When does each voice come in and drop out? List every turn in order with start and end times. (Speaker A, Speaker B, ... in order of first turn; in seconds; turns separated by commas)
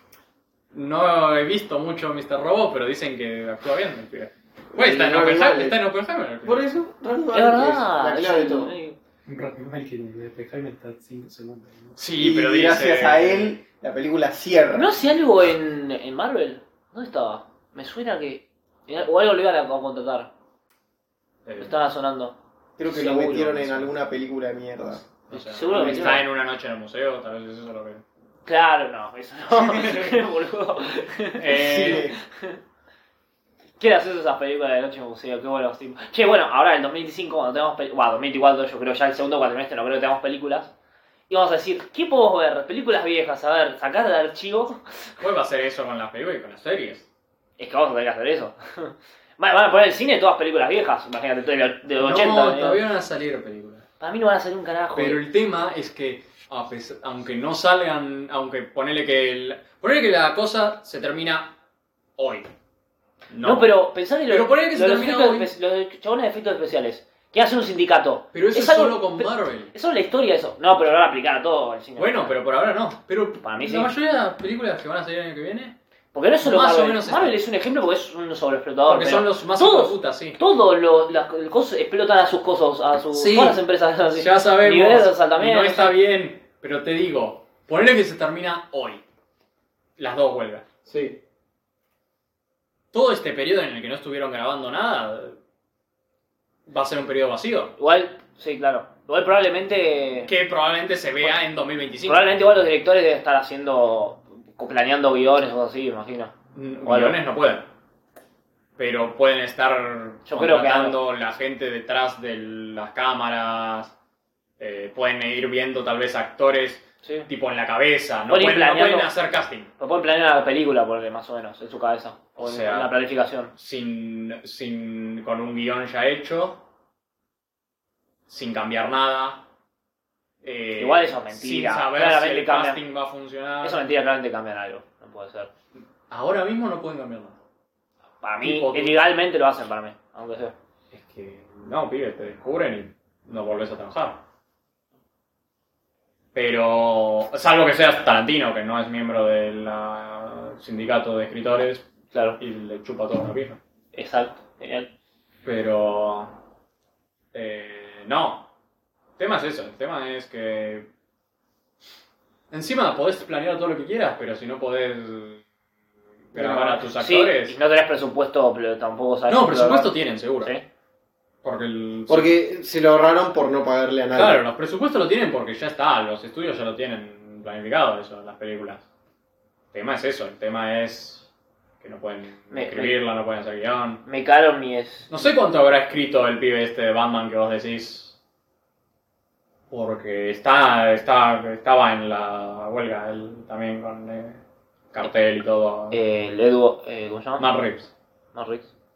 Speaker A: 0.7-6.7, Speaker B: 4.7-5.8, Speaker B: 6.4-8.7, Speaker C: 7.3-8.9, Speaker D: 9.3-11.9, Speaker A: 11.9-13.6, Speaker B: 12.2-14.9, Speaker C: 14.7-20.3, Speaker A: 21.4-21.8, Speaker C: 21.6-22.4, Speaker B: 22.8-25.1, Speaker C: 22.9-23.7, Speaker A: 23.4-23.9, Speaker A: 25.3-28.0, Speaker C: 25.3-26.2, Speaker B: 25.7-26.2, Speaker C: 28.4-32.6, Speaker A: 31.4-32.1, Speaker B: 31.5-32.2, Speaker C: 33.8-40.7, Speaker C: 41.3-45.1, Speaker A: 45.2-47.1, Speaker C: 47.6-52.8, Speaker A: 52.0-53.9, Speaker C: 54.0-55.2, Speaker A: 54.9-61.5, Speaker A: 62.2-62.5, Speaker A: 63.3-63.7, Speaker C: 63.4-72.3, Speaker A: 64.3-65.5, Speaker A: 68.3-69.7, Speaker A: 72.0-75.8, Speaker C: 73.4-73.9, Speaker C: 76.1-85.9, Speaker A: 76.4-77.4, Speaker A: 78.9-80.4, Speaker A: 83.1-83.6, Speaker A: 84.1-89.0, Speaker A: 90.0-90.6, Speaker B: 90.9-91.2, Speaker A: 92.9-95.4, Speaker A: 96.7-97.8, Speaker C: 97.8-100.3, Speaker A: 100.2-102.3, Speaker C: 102.0-106.3, Speaker A: 106.5-107.6, Speaker C: 106.8-107.2, Speaker A: 108.8-113.9, Speaker C: 110.3-111.0, Speaker A: 114.6-119.7, Speaker C: 118.3-119.1, Speaker C: 119.8-123.5, Speaker A: 122.4-122.9, Speaker A: 123.5-126.6, Speaker A: 128.3-129.4, Speaker A: 130.4-133.8, Speaker C: 130.8-132.8, Speaker C: 133.6-135.5, Speaker A: 136.1-137.4, Speaker C: 138.2-140.5, Speaker A: 138.4-139.0, Speaker A: 140.9-144.2, Speaker A: 146.3-153.6, Speaker C: 152.1-152.4, Speaker C: 153.9-154.9, Speaker A: 155.4-156.4, Speaker A: 157.3-158.5, Speaker A: 159.2-160.9, Speaker A: 162.5-165.4, Speaker A: 166.3-167.6, Speaker B: 166.3-166.8, Speaker C: 167.0-170.6, Speaker A: 169.3-170.5, Speaker A: 171.4-172.4, Speaker B: 172.1-174.4, Speaker A: 174.1-178.8, Speaker A: 179.7-181.3, Speaker A: 181.8-184.0, Speaker C: 182.5-182.9, Speaker C: 184.0-185.1, Speaker A: 185.1-188.2, Speaker A: 189.7-194.4, Speaker A: 194.9-196.0, Speaker C: 195.9-197.5, Speaker A: 197.4-197.9, Speaker C: 198.3-198.7